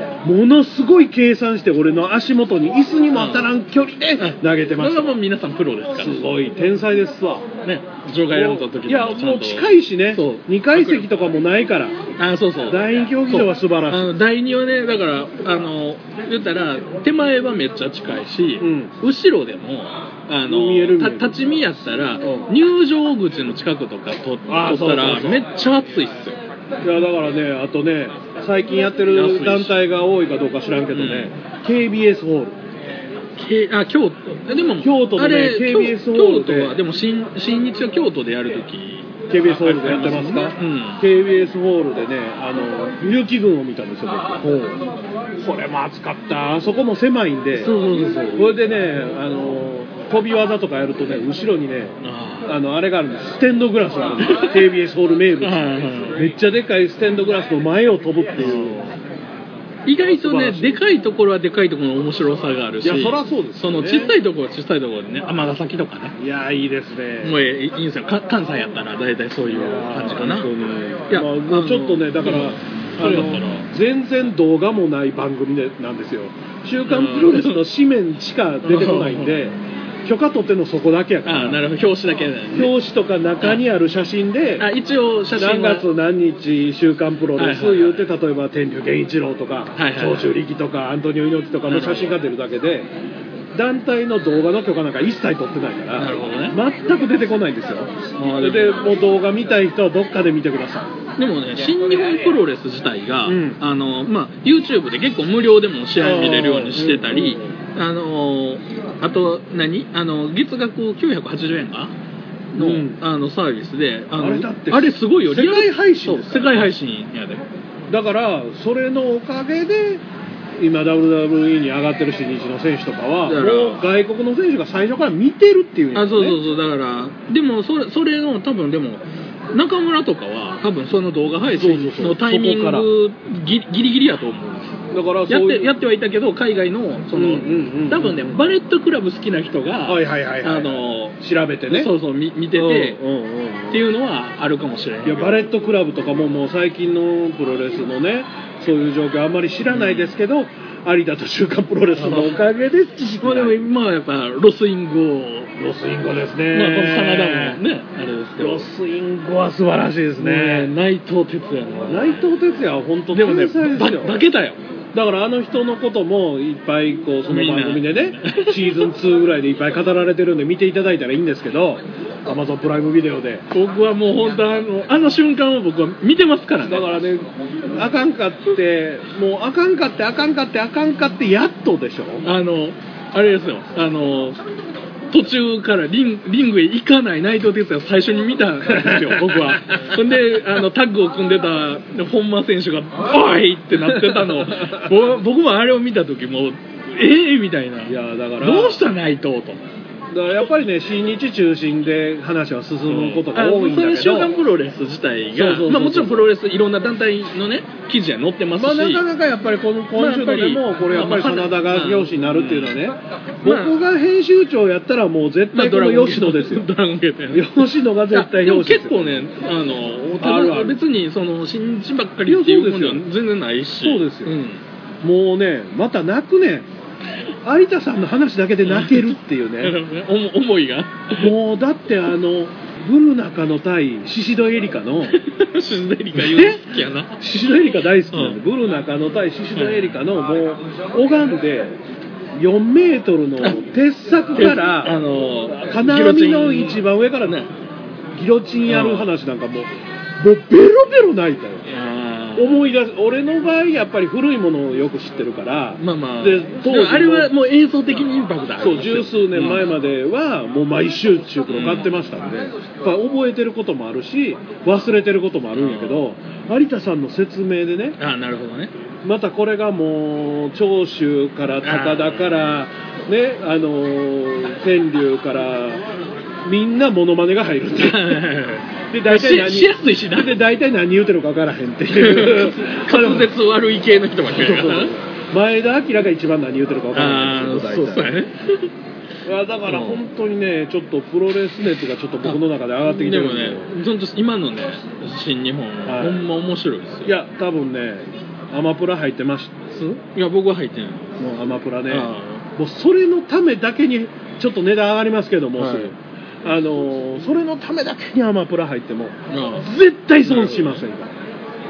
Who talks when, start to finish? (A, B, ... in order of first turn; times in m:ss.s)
0:00.2-0:05.2 A
0:03.2-0:03.4 B
0:04.2-0:06.2 B
0:05.9-0:07.4 A
0:07.6-0:11.1 B
0:08.3-0:12.0 A
0:12.2-0:26.4 B
0:12.7-0:14.1 A
0:18.6-0:18.9 A
0:20.5-0:21.4 A
0:22.2-0:22.5 A
0:24.5-0:25.4 A
0:26.8-0:32.6 A
0:29.1-0:29.8 B
0:30.9-0:31.3 B
0:33.4-0:41.0 B
0:34.8-0:36.8 A
0:39.3-0:44.8 A
0:45.3-0:58.8 A
0:47.6-0:48.4 B
0:52.0-0:52.5 B
0:54.2-0:54.5 B
0:55.4-0:56.2 B
0:58.4-0:59.0 B
0:59.8-1:06.2 B
1:00.0-1:00.8 A
1:02.8-1:04.1 A
1:06.2-1:07.4 A
1:07.2-1:10.5 B
1:09.4-1:21.6 A
1:11.1-1:13.7 B
1:16.8-1:17.6 B
1:18.6-1:19.4 B
1:21.2-1:22.7 B
1:22.5-1:24.7 A
1:24.6-1:25.9 B
1:25.3-1:32.9 A
1:27.4-1:28.0 B
1:29.8-1:30.3 B
1:31.7-1:32.2 B
1:33.5-1:40.9 A
1:36.0-1:36.6 B
1:38.2-1:38.9 B
1:41.2-1:51.9 B
1:43.2-1:43.6 A
1:46.0-1:47.5 A
1:52.5-1:57.4 B
1:52.6-1:53.0 A
1:54.1-1:56.7 A
1:57.9-2:00.0 A
2:00.6-2:06.4 A
2:03.2-2:03.8 B
2:05.9-2:14.8 B
2:11.5-2:12.9 A
2:14.9-2:15.7 A
2:15.3-2:21.2 B
2:17.1-2:18.5 A
2:19.8-2:21.9 A
2:21.7-2:23.0 B
2:22.5-2:23.8 A
2:23.7-2:25.4 B
2:25.0-2:33.6 A
2:29.7-2:30.1 B
2:32.0-2:32.4 B
2:33.2-2:35.5 B
2:35.6-2:37.6 A
2:36.5-2:38.7 B
2:38.4-2:40.7 A
2:40.2-2:42.3 B
2:41.9-2:44.2 A
2:43.1-2:44.6 B
2:44.9-2:53.4 A
2:47.3-2:48.8 B
2:53.5-2:56.8 B
2:56.6-3:02.3 A
3:02.2-3:04.4 B
3:05.1-3:19.6 B
3:08.6-3:09.9 A
3:13.8-3:14.9 A
3:17.8-3:18.8 A
3:20.1-3:24.3 A
3:22.9-3:29.0 B
3:25.3-3:26.3 A
3:28.5-3:36.7 A
3:30.0-3:32.8 B
3:33.4-3:33.8 B
3:35.5-3:44.6 B
3:37.3-3:39.3 A
3:40.2-3:40.8 A
3:42.2-3:43.1 A
3:43.8-3:44.4 A
3:45.0-3:46.7 A
3:47.4-3:49.8 A
3:48.6-3:51.3 B
3:51.2-3:55.2 A
3:55.1-3:57.1 B
3:56.1-4:01.8 A
3:58.1-3:58.4 B
3:59.5-3:59.9 B
4:02.3-4:07.4 A
4:04.4-4:07.5 B
4:08.1-4:11.8 A
4:08.7-4:09.1 B
4:11.7-4:12.6 B
4:12.4-4:17.3 A
4:15.8-4:19.7 B
4:18.6-4:28.0 A
4:21.5-4:21.9 B
4:25.5-4:26.0 B
4:28.0-4:28.7 B
4:29.0-4:35.8 A
4:31.6-4:32.5 B
4:36.4-4:38.2 A
4:37.8-4:40.4 B
4:38.9-4:43.3 A
4:41.9-4:45.0 B
4:44.2-4:48.2 A
4:46.9-4:48.7 B
4:49.2-4:53.7 A
4:49.7-4:50.0 B
4:52.2-4:57.1 B
4:55.8-4:56.3 A
4:57.0-4:59.6 A
4:59.7-5:01.1 B
5:01.2-5:11.2 A
5:01.9-5:02.4 B
5:05.6-5:05.9 B
5:09.3-5:09.7 B
5:10.2-5:10.8 B